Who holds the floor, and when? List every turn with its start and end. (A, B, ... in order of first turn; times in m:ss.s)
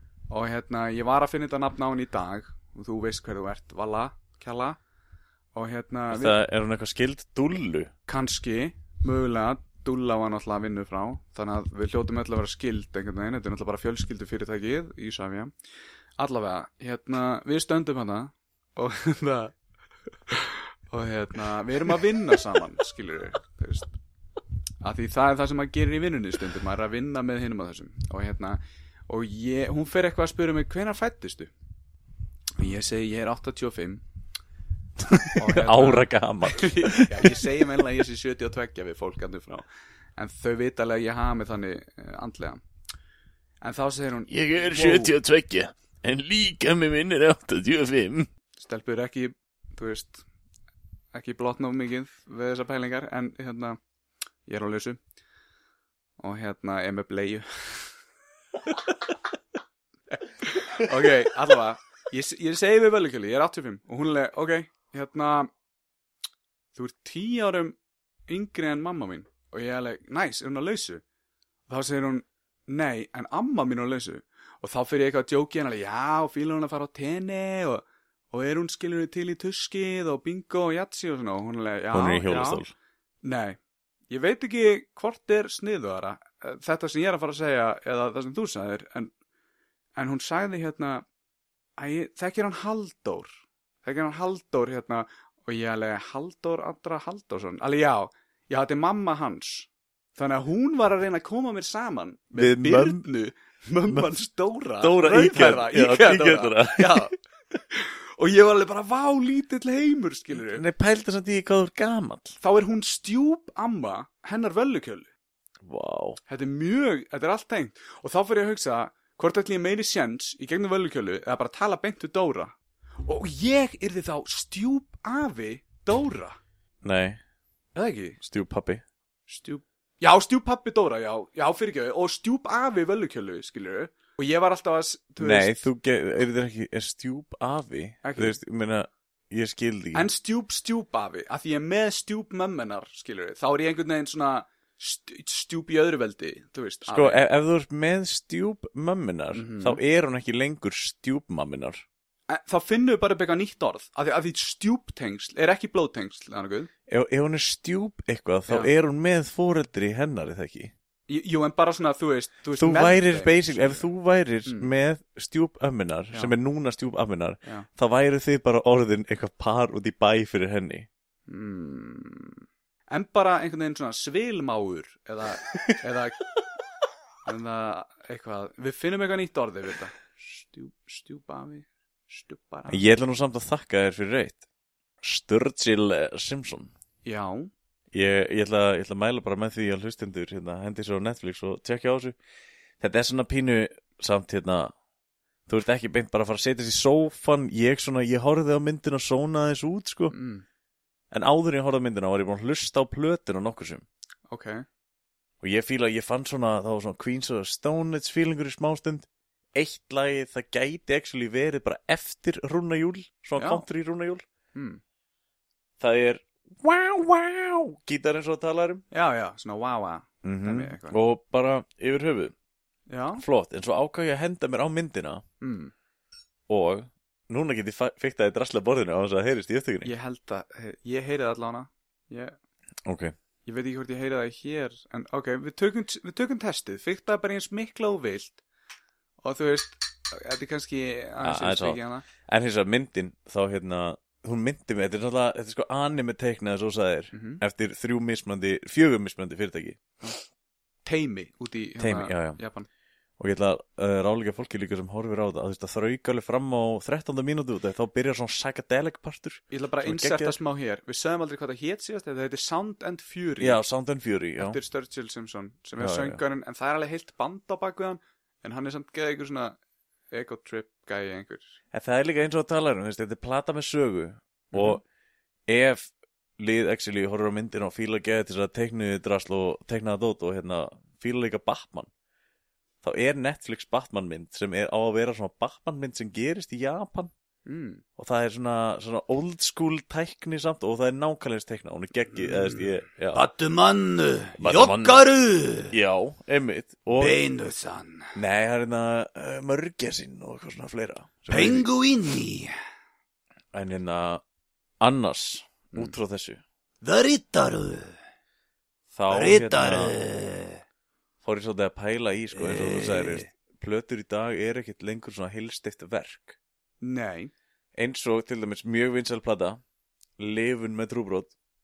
0:00.3-0:04.8 A
0:05.5-0:06.4 A
0:06.1-0:07.9 B
0:08.1-0:15.5 A
0:16.2-0:19.6 A
0:20.3-0:23.9 A
0:24.8-0:31.5 A
0:32.6-0:34.0 A
0:35.1-0:37.7 B
0:35.3-0:42.6 A
0:43.6-0:45.1 A
0:44.3-0:48.3 B
0:48.6-0:50.2 A
0:51.1-0:53.8 A
0:54.5-0:55.0 A
0:56.2-0:57.9 A
1:00.1-1:05.5 A
1:06.8-1:07.8 A
1:08.3-1:11.0 A
1:11.7-1:22.6 A
1:21.9-1:22.7 B
1:23.2-1:23.6 A
1:24.1-1:29.1 A
1:30.0-1:31.0 A
1:31.8-1:33.3 A
1:33.8-1:47.1 A
1:42.4-1:43.0 B
1:43.9-1:44.2 B
1:44.8-1:47.1 B
1:47.7-1:50.6 A
1:50.3-1:52.4 B
1:52.4-1:55.1 A
1:55.6-1:56.2 B
1:56.3-2:06.4 A
2:06.8-2:07.2 B
2:07.8-2:08.2 A
2:08.2-2:08.8 B
2:09.3-2:15.7 A
2:15.2-2:20.1 B
2:18.0-2:18.4 A
2:20.0-2:27.2 A
2:26.9-2:31.8 B
2:29.3-2:29.8 A
2:32.3-2:36.7 A
2:36.9-2:40.7 B
2:41.1-2:43.9 A
2:42.6-2:50.9 B
2:44.4-2:44.7 A
2:51.3-2:56.2 A
2:57.2-3:02.9 A
3:02.7-3:04.4 B
3:05.0-3:06.7 B
3:07.0-3:07.5 A
3:07.9-3:12.2 B
3:12.8-3:14.7 B
3:15.5-3:20.1 B
3:20.1-3:20.4 A
3:21.1-3:23.8 B
3:24.3-3:24.7 A
3:25.4-3:34.2 B
3:33.4-3:33.7 A
3:34.5-3:34.8 A
3:35.8-3:38.8 B
3:38.9-3:41.0 A
3:40.2-3:42.3 B
3:42.9-3:43.2 A
3:43.2-3:45.2 B
3:45.4-3:45.7 A
3:46.5-3:49.9 B
3:49.8-3:52.4 A
3:52.8-3:53.1 B
3:53.5-3:58.4 A
3:59.2-4:02.1 A
4:01.2-4:09.9 B
4:07.1-4:07.4 A
4:10.8-4:12.7 A
4:11.8-4:12.4 B
4:13.2-4:20.4 B
4:19.5-4:23.6 A
4:23.4-4:24.6 B
4:24.4-4:29.6 A
4:25.8-4:26.2 B
4:30.1-4:31.6 A
4:31.7-4:34.8 B
4:34.5-4:34.8 A
4:35.5-4:41.9 B
4:42.8-4:47.1 B
4:47.5-4:47.8 A
4:48.0-4:53.2 B
4:52.2-4:55.8 A
4:54.4-4:55.0 B
4:55.7-4:57.2 B
4:57.0-4:58.1 A
4:58.2-5:01.7 B
5:01.3-5:02.5 A
5:03.5-5:04.2 B
5:04.8-5:06.4 B
5:06.8-5:08.0 A
5:08.9-5:10.0 B
5:09.1-5:10.6 A
5:11.2-5:16.4 B
5:12.4-5:13.3 A
5:16.8-5:17.3 A
5:17.8-5:19.6 B
5:20.2-5:21.3 B